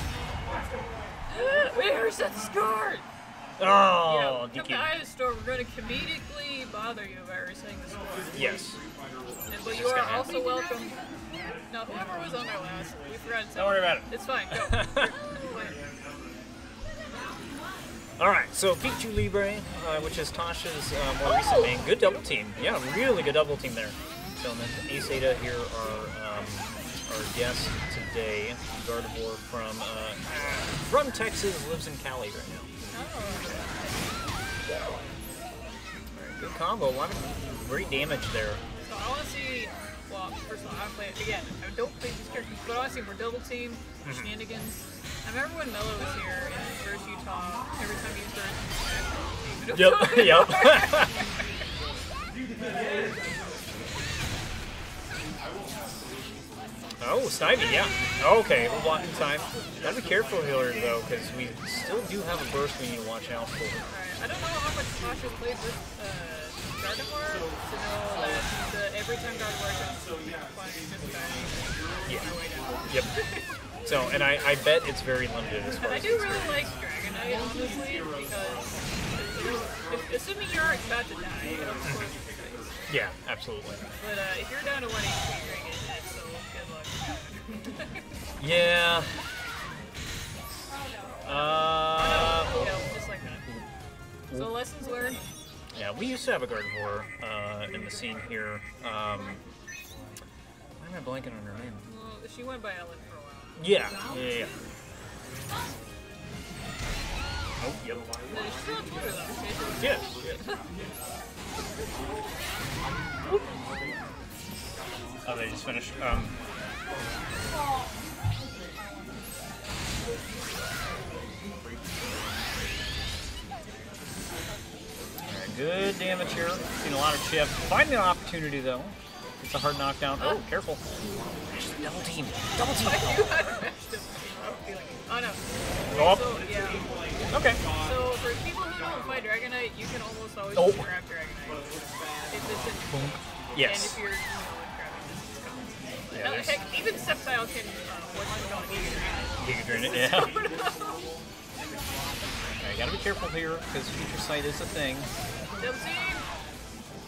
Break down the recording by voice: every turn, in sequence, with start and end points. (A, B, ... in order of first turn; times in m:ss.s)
0:01.3-0:03.0 A
0:03.6-0:05.0 B
0:04.0-0:08.6 A
0:08.3-0:08.8 B
0:09.5-0:11.0 A
0:09.7-0:10.4 B
0:11.7-0:15.8 A
0:13.5-0:15.1 B
0:18.2-0:32.6 B
0:21.2-0:22.0 A
0:32.9-0:34.1 A
0:36.2-0:38.6 B
0:38.8-0:51.3 A
0:44.0-0:44.3 B
0:49.7-0:51.1 B
0:57.0-1:03.8 B
0:57.6-0:58.2 A
1:03.9-1:13.5 A
1:13.8-1:16.7 B
1:15.8-1:22.7 A
1:22.9-1:23.8 B
1:24.0-1:28.1 A
1:28.4-1:29.2 B
1:31.2-1:32.7 B
1:31.2-1:33.6 A
1:34.3-1:34.5 B
1:34.3-1:35.2 A
1:35.7-1:39.4 B
1:40.8-1:41.9 B
1:41.8-1:43.8 A
1:43.6-1:44.6 B
1:47.6-1:48.0 B
1:48.3-1:50.6 A
1:49.8-1:50.3 B
1:55.2-1:56.4 B
2:05.3-2:10.8 B
2:10.2-2:10.4 A
2:11.5-2:13.3 B
2:12.8-2:16.9 A
2:15.9-2:16.4 B
2:17.3-2:17.6 B
2:17.8-2:21.7 A
2:20.6-2:20.9 B
2:22.3-2:31.0 A
2:22.9-2:24.0 B
2:26.1-2:26.6 B
2:29.4-2:30.4 B
2:32.6-2:35.1 B
2:35.6-2:36.2 A